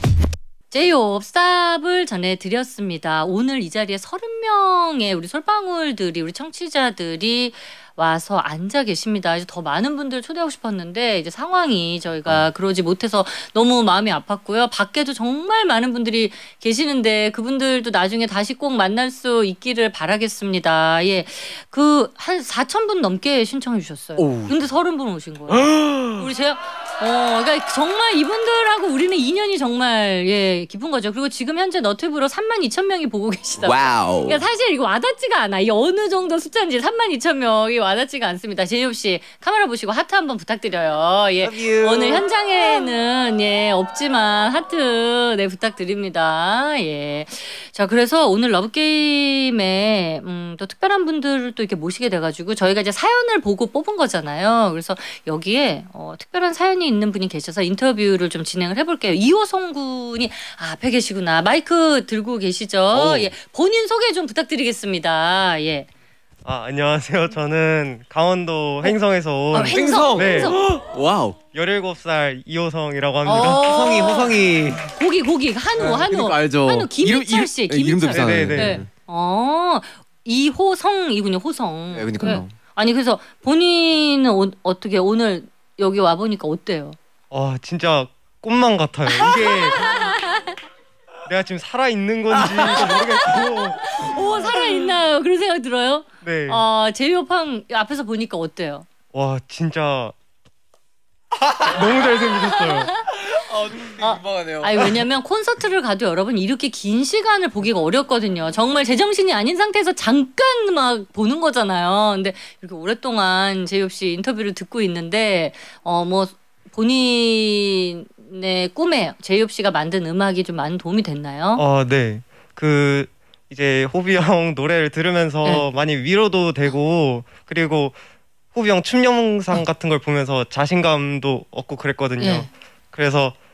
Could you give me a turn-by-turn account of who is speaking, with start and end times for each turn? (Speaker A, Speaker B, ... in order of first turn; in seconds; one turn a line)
Speaker A: 0.7-65.9
Speaker B: 24.2-24.6
Speaker B: 25.5-26.3
Speaker B: 33.6-34.4
Speaker B: 41.4-42.2
Speaker B: 62.9-63.3
Speaker C: 66.4-70.5
Speaker A: 69.5-70.6
Speaker B: 69.5-71.4
Speaker C: 71.5-74.2
Speaker A: 73.2-74.3
Speaker B: 73.3-74.9
Speaker A: 74.9-87.0
Speaker B: 75.8-78.9
Speaker C: 78.1-78.8
Speaker B: 81.9-82.5
Speaker C: 87.3-90.2
Speaker A: 89.1-90.5
Speaker C: 91.3-94.1
Speaker B: 92.3-93.5
Speaker A: 92.7-98.8
Speaker C: 96.2-96.6
Speaker C: 99.1-100.1
Speaker B: 101.3-102.5
Speaker C: 101.7-102.9
Speaker A: 102.5-103.1
Speaker B: 103.1-105.0
Speaker A: 104.0-121.6
Speaker C: 121.5-128.0
Speaker C: 128.5-133.4
Speaker A: 132.2-132.5